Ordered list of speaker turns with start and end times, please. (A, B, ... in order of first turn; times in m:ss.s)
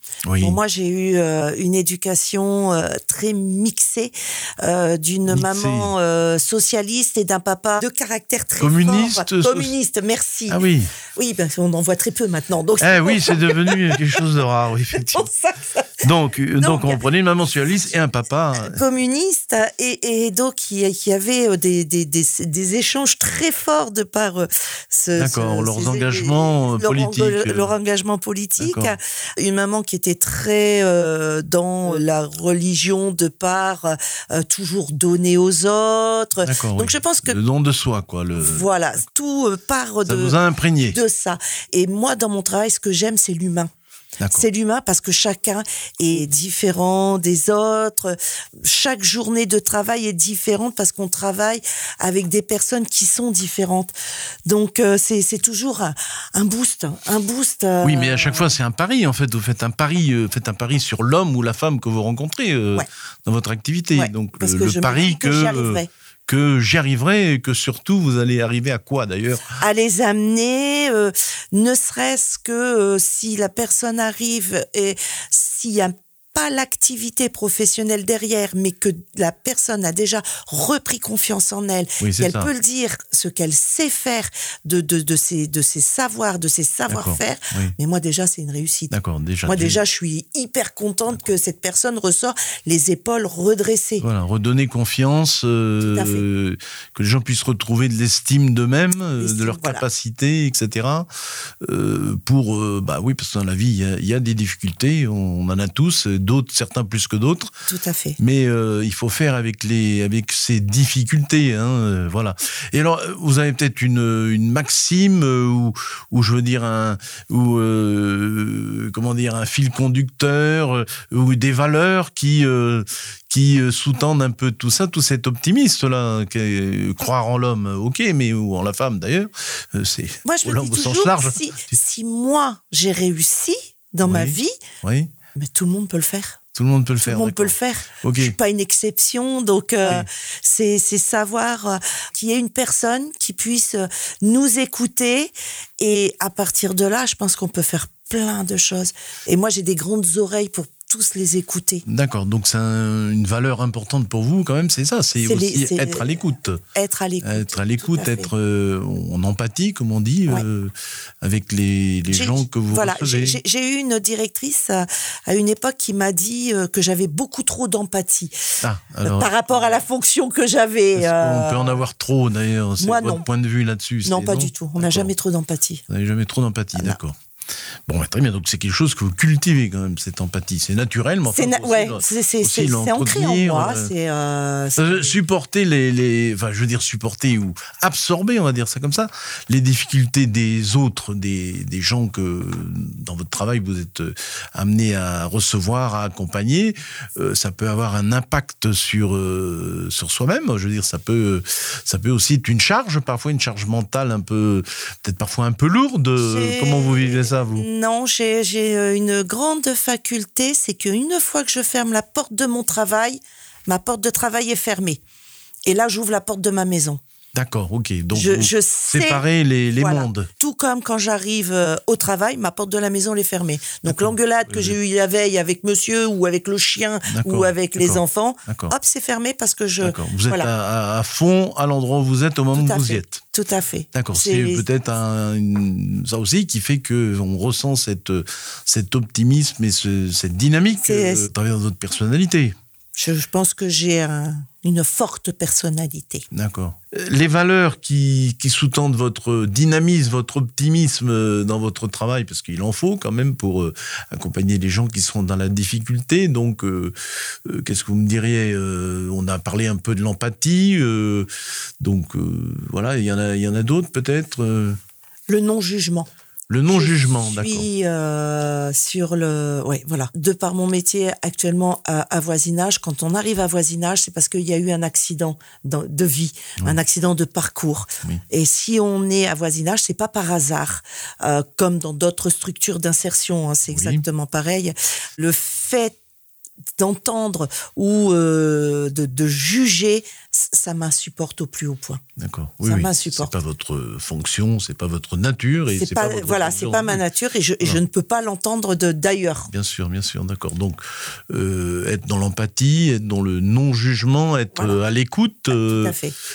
0:00.2-0:00.6 A
0:00.4-0:10.6 B
0:05.3-0:05.9 A
0:08.6-0:09.7 A
0:10.5-0:10.9 A
0:11.1-0:14.2 B
0:12.8-0:15.3 A
0:14.9-0:17.0 B
0:16.0-0:18.8 A
0:18.5-0:37.4 B
0:25.2-0:27.7 A
0:28.6-0:29.0 A
0:36.4-0:38.7 A
0:38.4-0:40.4 B
0:40.0-0:41.0 A
0:40.9-0:43.7 B
0:44.2-0:44.5 A
0:44.3-0:53.9 B
0:54.4-0:58.5 B
0:57.8-1:09.5 A
1:03.9-1:05.9 B
1:09.5-1:28.9 B
1:22.0-1:22.5 A
1:26.9-1:27.7 A
1:28.9-1:29.8 A
1:29.4-1:34.0 B
1:34.0-1:41.1 A
1:35.8-1:36.2 B
1:39.2-1:39.8 B
1:41.6-1:47.5 A
1:47.7-1:48.2 B
1:48.2-2:11.4 A
2:10.2-2:14.6 B
2:14.0-2:15.1 A
2:15.4-2:16.4 B
2:16.5-2:18.3 A
2:17.0-2:31.8 B
2:31.8-2:36.6 A
2:35.2-2:36.1 B
2:36.7-2:38.3 B
2:37.2-2:43.4 A
2:42.1-2:48.4 B
2:48.6-2:49.3 A
2:49.0-2:51.8 B
2:50.9-2:55.1 A
2:52.8-2:53.2 B
2:54.0-2:55.8 B
2:55.9-2:57.2 A
2:57.9-3:03.9 A
3:01.3-3:05.2 B
3:04.8-3:27.6 A
3:26.2-3:35.0 B
3:35.6-3:37.0 B
3:37.3-3:40.3 A
3:38.1-3:39.2 B
3:39.8-3:50.5 B
3:43.8-3:44.8 A
3:47.0-3:48.7 A
3:49.8-3:53.2 A
3:52.5-3:54.6 B
3:53.9-4:02.5 A
4:00.8-4:01.3 B
4:02.9-4:06.2 B
4:06.3-4:21.3 A
4:21.8-4:24.8 A
4:25.3-4:26.1 B
4:26.5-4:27.7 A
4:26.7-4:46.0 B
4:43.7-4:44.0 A
4:46.8-4:52.0 B
4:52.2-4:57.0 A
4:52.6-4:53.3 B
4:55.8-4:59.5 B
4:59.5-5:05.9 A
5:05.5-5:06.1 B